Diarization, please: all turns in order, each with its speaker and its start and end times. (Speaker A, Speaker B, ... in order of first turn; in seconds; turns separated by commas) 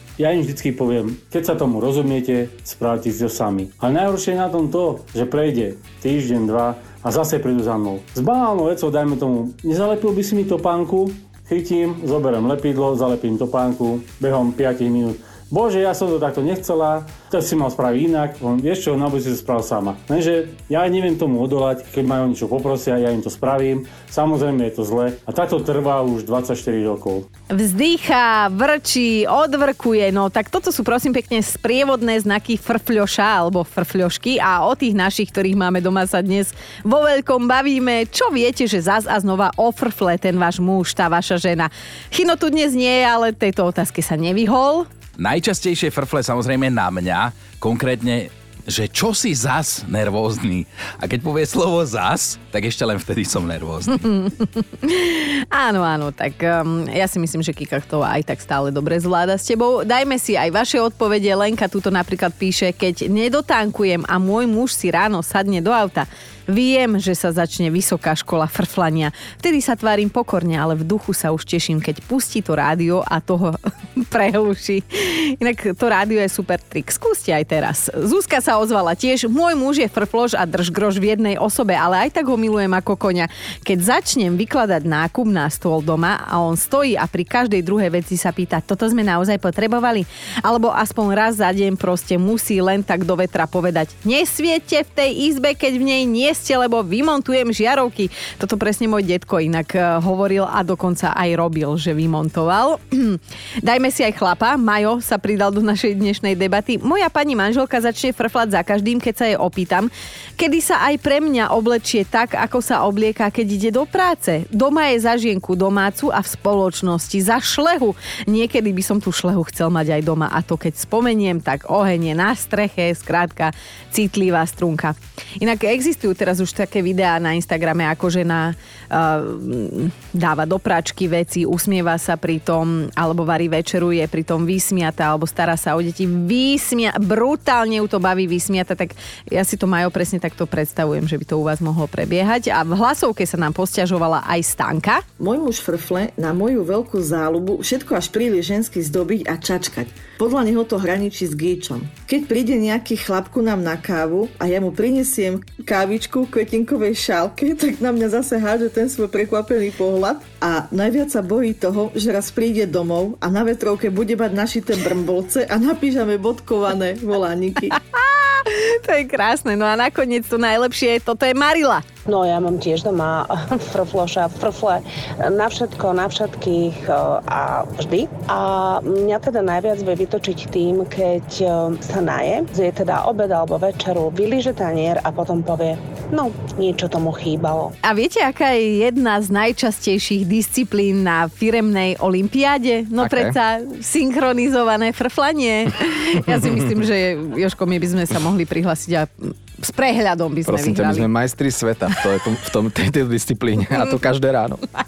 Speaker A: 0.2-27.3, Speaker B: 27.5-44.9, Speaker C: 45.2-54.0, Speaker B: 54.0-145.0, Speaker D: 145.2-167.8, Speaker B: 167.7-171.8, Speaker E: 172.1-187.7, Speaker B: 187.8-201.1, Speaker F: 193.0-193.4, Speaker F: 200.4-204.6